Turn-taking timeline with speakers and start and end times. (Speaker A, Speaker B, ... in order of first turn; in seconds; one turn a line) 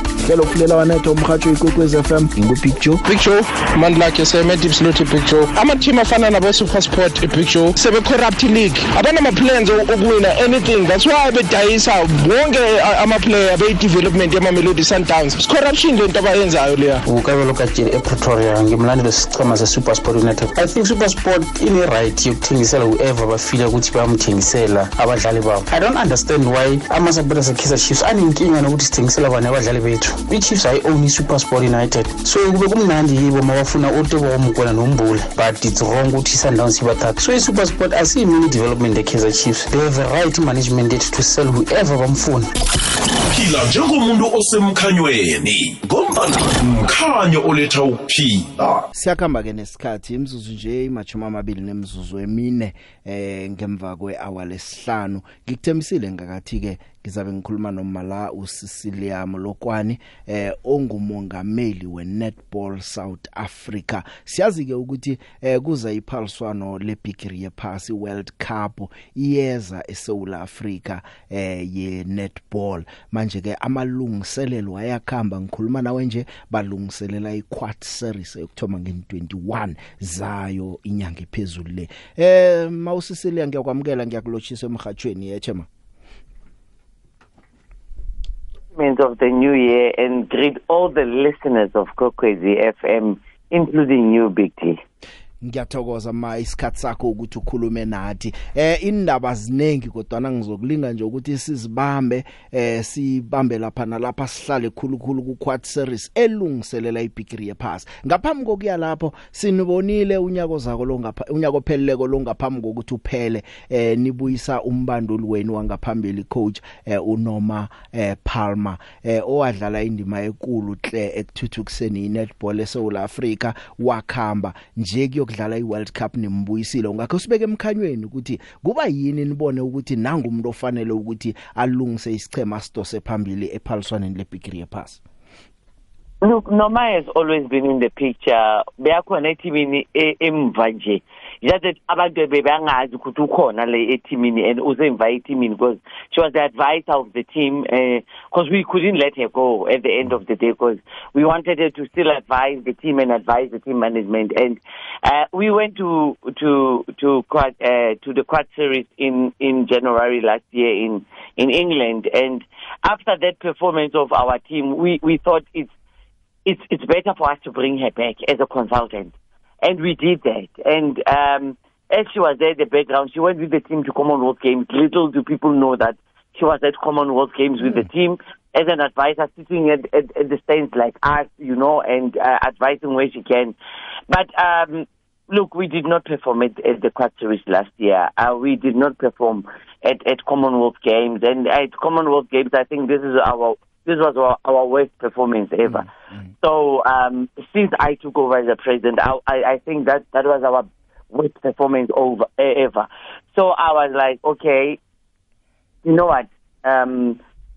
Speaker A: 0.2-3.0
Speaker B: 3.0-17.0
Speaker C: 17.0-42.5
Speaker D: 43.2-48.7
Speaker A: 48.9-85.7
Speaker E: 88.7-94.8
Speaker A: 95.4-135.0
Speaker E: 136.2-165.7
Speaker E: 166.4-183.5
Speaker E: 184.1-195.9
Speaker A: 195.7-196.2
Speaker E: 196.4-204.8
Speaker E: 205.8-207.2